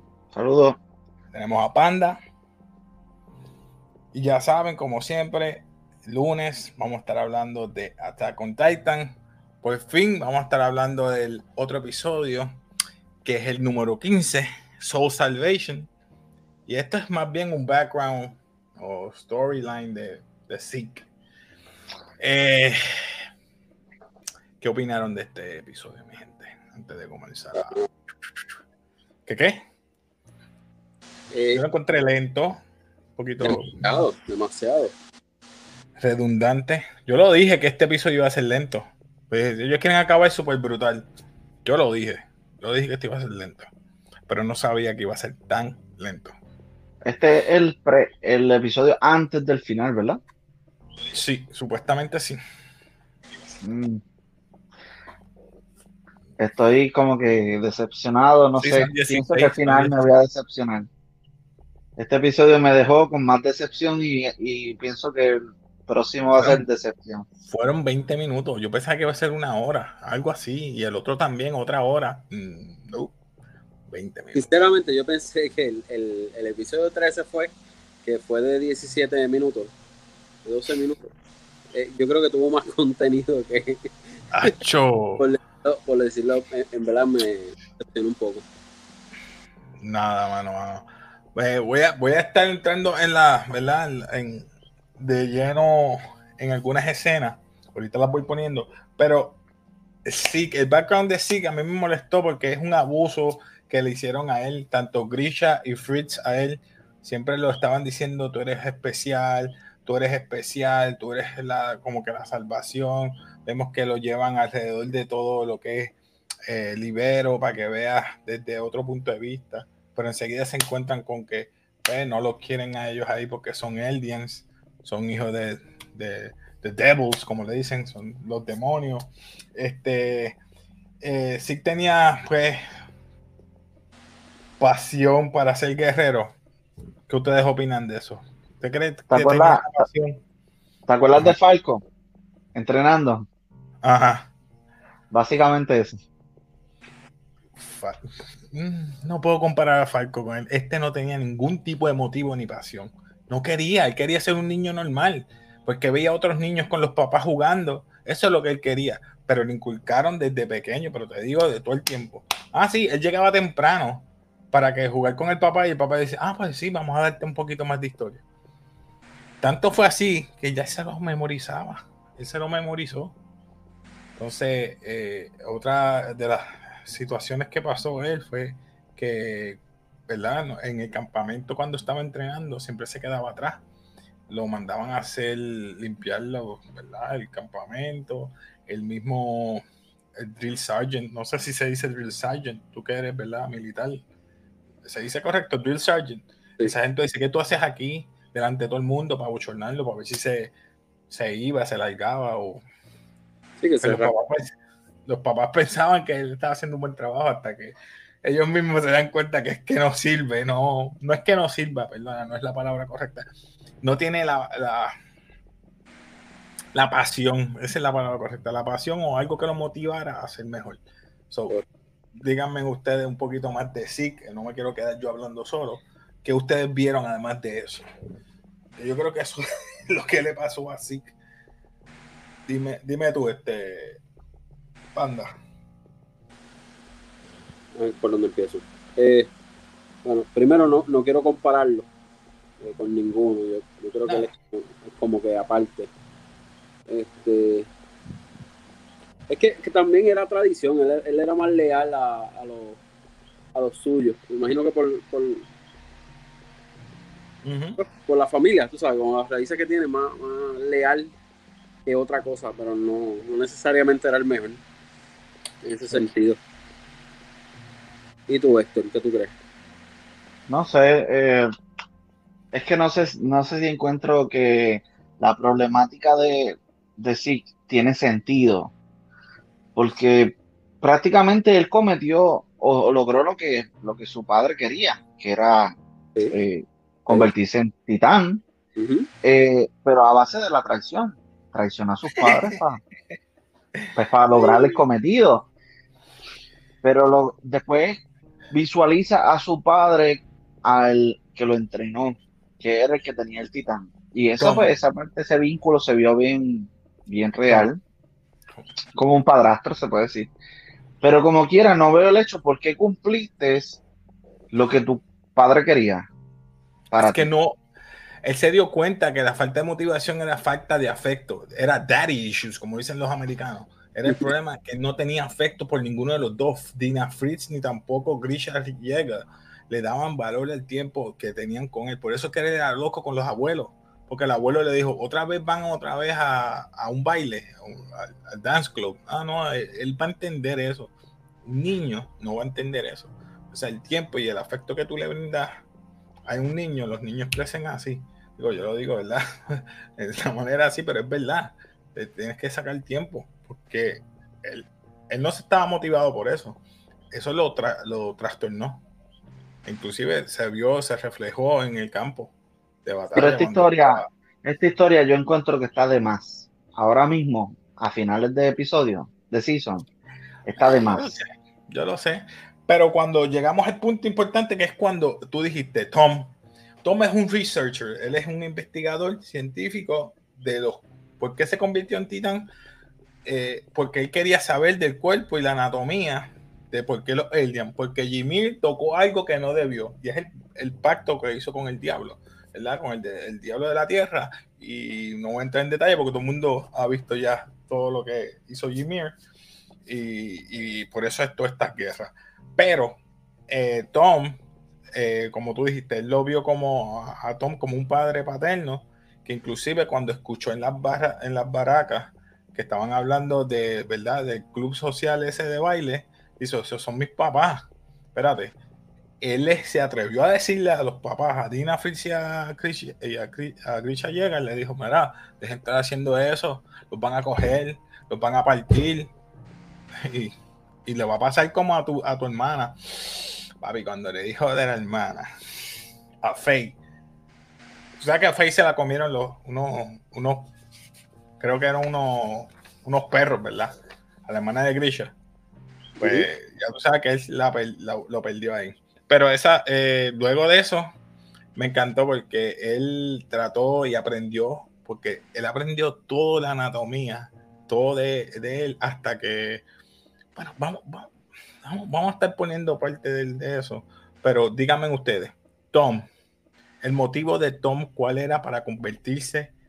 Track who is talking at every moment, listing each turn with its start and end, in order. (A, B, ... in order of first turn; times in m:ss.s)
0:00.3-0:00.8 A
0:01.3-0:02.2 B
0:04.1-0:12.6 B
0:13.2-0:15.9 B
0:16.7-0:21.1 B
0:22.2-0:22.8 B
0:24.6-0:27.8 B
0:27.6-0:27.8 C
0:29.3-0:29.6 B
0:31.3-0:31.6 C
0:31.5-0:32.6 B
0:33.2-0:34.0 B
0:33.4-0:34.9 C
0:36.0-0:41.1 B
0:41.6-0:43.7 B
0:44.3-0:46.4 B
0:47.0-0:50.2 A
0:51.1-0:52.4 B
0:53.6-0:54.0 A
0:56.4-1:00.9 A
0:58.6-1:00.1 B
1:02.0-1:07.3 A
1:06.3-1:06.7 B
1:07.5-1:13.1 B
1:13.9-1:14.5 B
1:14.3-1:19.7 C
1:20.4-1:21.1 C
1:21.7-1:24.5 C
1:24.3-1:25.2 B
1:25.2-1:28.4 C
1:29.8-1:39.4 B
1:40.0-1:56.0 B
1:56.5-2:10.4 B
2:11.0-2:12.6 B
2:14.6-2:16.4 B
2:17.1-2:20.2 B
2:19.1-2:19.8 A
2:20.9-2:21.8 A
2:22.6-2:23.3 A
2:23.8-2:24.3 B
2:25.1-2:26.0 A
2:27.6-2:48.2 B
2:49.4-2:53.2 B
2:54.2-3:03.6 B
3:04.3-3:09.6 B
3:10.2-3:14.0 B
3:14.8-3:20.5 B
3:21.1-3:22.6 B
3:23.6-3:24.1 C
3:23.8-3:24.5 B
3:25.1-3:33.3 B
3:33.8-3:35.0 B
3:36.7-3:41.6 B
3:42.2-3:47.9 B
3:48.8-3:51.1 B
3:52.5-3:54.0 B
3:54.9-3:55.3 B
3:57.8-3:59.3 C
4:00.0-4:01.9 C
4:02.6-4:05.9 C
4:06.9-4:07.7 C
4:09.3-4:12.8 C
4:13.6-4:15.4 C
4:17.4-4:17.8 B
4:17.8-4:21.1 C
4:21.9-4:24.6 C
4:25.6-4:26.4 C
4:28.3-4:29.3 C
4:30.5-4:31.5 A
4:32.5-4:38.7 A
4:39.8-4:45.8 A
4:46.3-4:48.4 A
4:48.8-4:49.1 C
4:49.2-4:52.8 A
4:52.2-4:52.6 B
4:53.8-4:54.7 B
4:54.0-4:55.5 A
4:56.8-4:58.0 A
4:58.5-5:07.8 A
5:04.4-5:04.7 B
5:09.0-5:10.3 A
5:11.0-5:13.8 A
5:14.5-5:16.1 A
5:16.9-5:17.3 A
5:17.0-5:17.6 B
5:18.2-5:40.9 B
5:41.4-5:45.6 B
5:46.3-5:56.6 B
5:57.1-5:58.8 B
5:59.6-6:02.3 B
6:02.8-6:04.1 B
6:03.2-6:09.9 A
6:10.4-6:11.1 A
6:10.6-6:22.5 B
6:23.2-6:39.2 B
6:39.9-6:44.4 B
6:45.0-6:58.6 B
6:59.2-7:09.1 B
7:10.0-7:10.3 B
7:10.9-7:15.3 B
7:16.2-7:16.8 B
7:18.0-7:20.5 B
7:21.4-7:23.7 B
7:24.3-7:25.2 B
7:26.0-7:26.3 C
7:26.0-7:31.0 B
7:31.6-7:39.6 B
7:40.4-7:41.1 B
7:41.6-7:46.1 B
7:46.8-7:49.5 B